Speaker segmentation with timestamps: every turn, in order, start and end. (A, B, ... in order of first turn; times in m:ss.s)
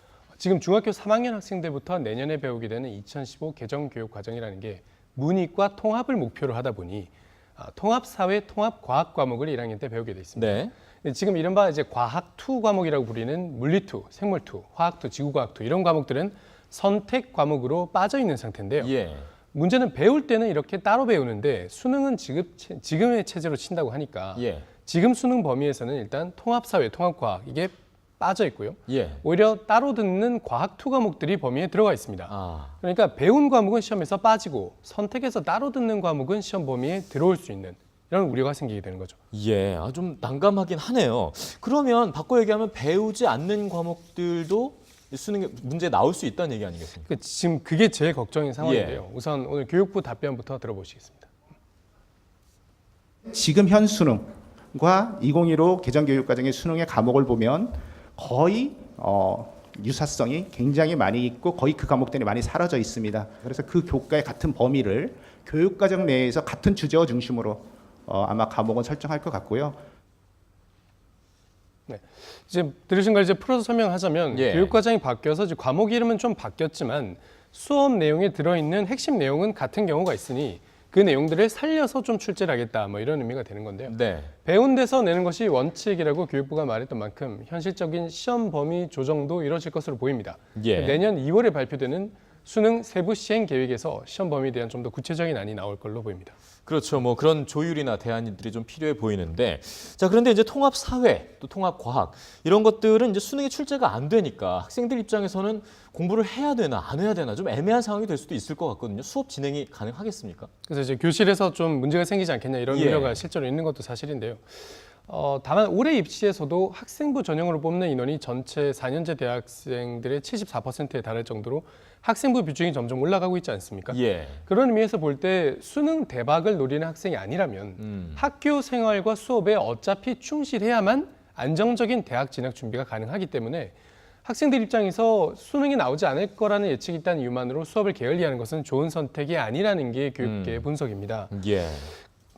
0:00.4-0:18.9 A
0:10.4-0:10.7 B
0:18.8-0:19.3 B
0:19.5-0:39.2 A
0:24.4-0:24.7 B
0:28.9-0:29.2 B
0:32.3-0:32.7 B
0:39.3-0:47.1 B
0:47.1-0:51.3 A
0:48.6-0:49.0 B
0:53.3-1:09.8 C
1:11.9-1:36.3 A
1:14.3-1:14.8 B
1:23.9-1:24.3 B
1:30.6-1:31.0 B
1:36.7-1:50.5 B
1:50.7-2:21.3 A
1:52.7-1:53.2 B
2:03.9-2:04.4 B
2:07.8-2:08.2 B
2:20.2-2:20.7 B
2:21.3-2:22.0 B